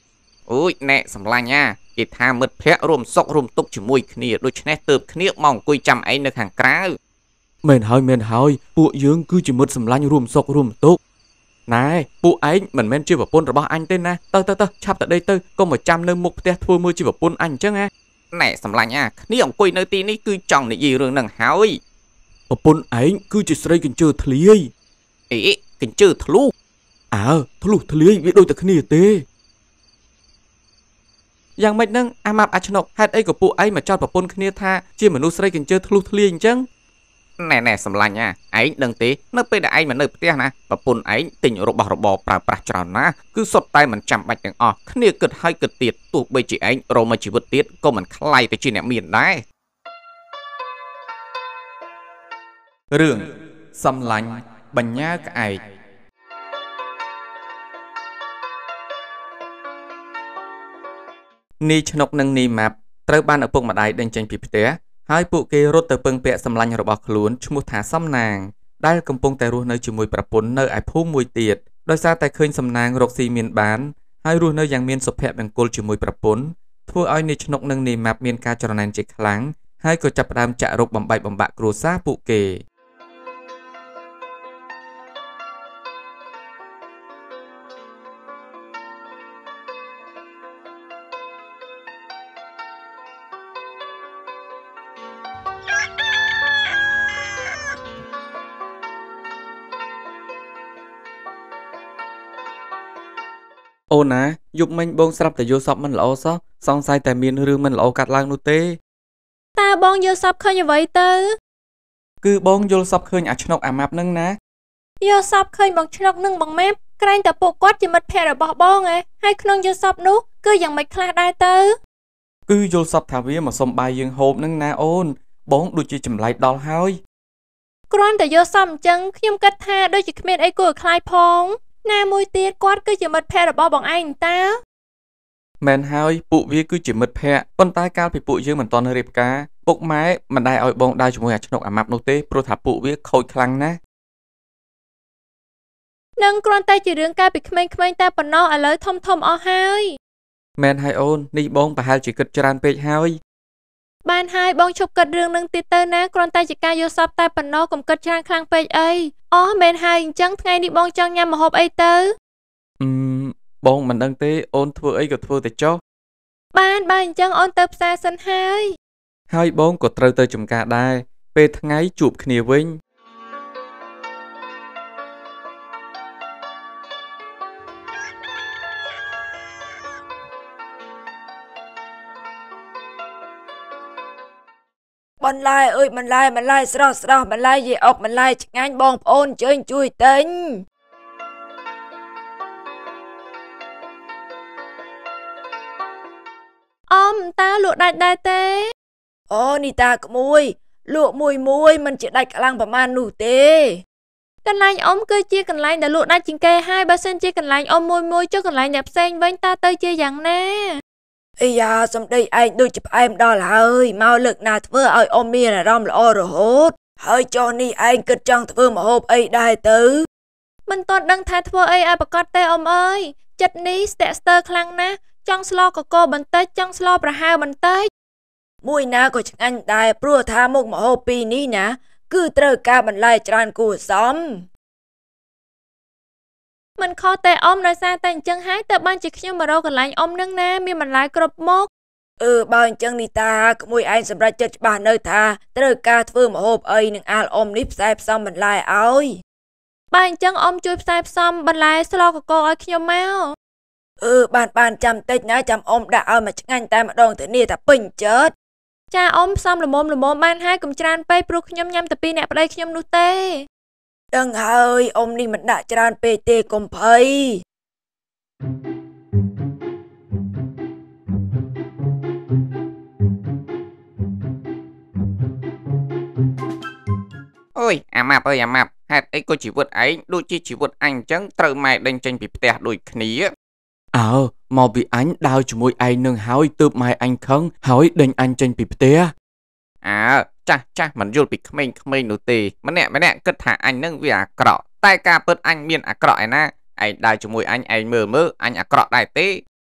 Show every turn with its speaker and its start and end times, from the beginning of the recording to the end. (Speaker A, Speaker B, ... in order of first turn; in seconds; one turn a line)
Speaker A: 0.5-6.9
Speaker B: 7.6-11.0
Speaker B: 11.7-17.9
Speaker A: 18.3-21.8
Speaker B: 22.5-24.7
Speaker A: 25.3-26.5
Speaker B: 27.1-29.2
Speaker B: 31.6-36.7
Speaker A: 37.4-49.4
Speaker B: 52.9-55.0
Speaker A: 55.0-55.6
Speaker B: 61.6-82.6
Speaker B: 103.9-108.8
Speaker C: 109.6-111.3
Speaker B: 112.2-114.4
Speaker C: 115.0-121.8
Speaker B: 122.5-127.0
Speaker C: 127.9-134.6
Speaker B: 135.6-143.8
Speaker C: 146.2-150.0
Speaker B: 150.6-153.2
Speaker C: 154.1-162.1
Speaker B: 162.8-165.8
Speaker C: 166.5-168.7
Speaker B: 169.3-172.8
Speaker D: 185.2-190.6
Speaker C: 196.9-198.7
Speaker D: 199.3-203.8
Speaker C: 204.4-210.8
Speaker D: 211.4-220.1
Speaker C: 220.7-227.9
Speaker D: 228.6-234.5
Speaker C: 236.8-241.7
Speaker D: 242.2-249.2
Speaker C: 249.9-253.3
Speaker D: 254.0-258.3
Speaker C: 258.9-263.5
Speaker D: 264.1-267.4
Speaker A: 277.6-283.3
Speaker B: 283.9-289.1
Speaker A: 289.8-299.4